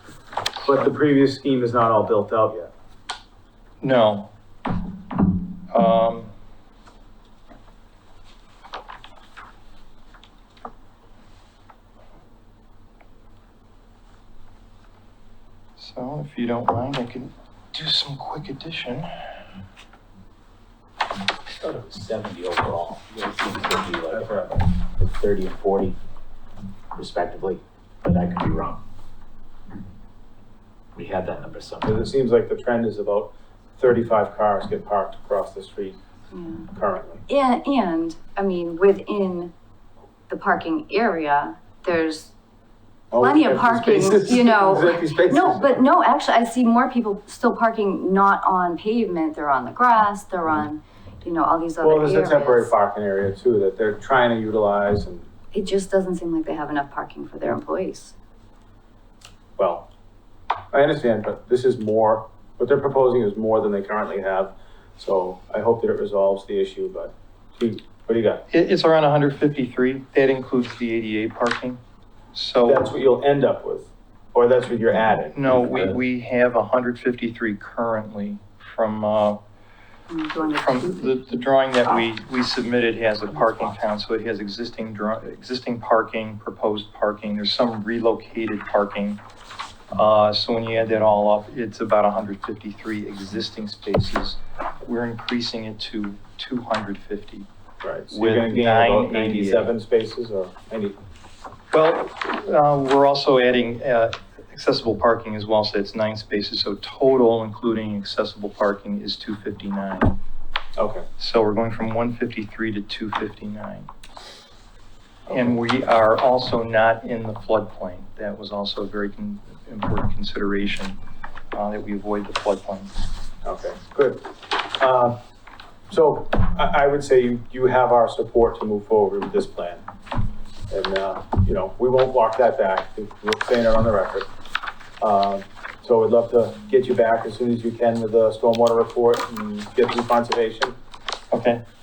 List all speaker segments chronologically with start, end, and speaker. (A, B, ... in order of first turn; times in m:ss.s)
0:00.6-0:02.7 A
0:03.8-0:04.3 B
0:05.7-0:06.3 B
0:15.8-0:19.1 B
0:21.5-0:26.0 C
0:24.1-0:24.6 A
0:26.9-0:28.8 C
0:30.9-0:32.1 C
0:31.8-0:36.0 A
0:36.3-0:36.7 D
0:36.7-0:37.2 A
0:37.3-0:39.5 D
0:40.3-0:42.3 D
0:43.1-0:45.7 A
0:43.2-0:52.7 D
0:51.8-0:55.3 A
0:55.5-0:58.1 D
0:59.6-0:59.9 A
1:00.7-1:08.4 A
1:08.5-1:11.8 B
1:12.3-1:12.9 B
1:12.6-1:15.4 A
1:15.3-1:19.4 B
1:15.4-1:15.9 C
1:20.1-1:21.2 D
1:20.4-1:29.2 B
1:29.9-1:37.4 B
1:37.8-1:41.0 A
1:38.1-1:39.7 B
1:41.7-1:50.2 B
1:50.8-1:51.1 A
1:51.2-1:53.9 B
1:55.3-1:55.6 A
1:55.3-2:01.0 B
2:01.5-2:02.9 B
2:03.4-2:05.2 A
2:05.9-2:09.8 A
2:10.7-2:14.3 A
2:15.0-2:20.8 A
2:21.3-2:21.6 B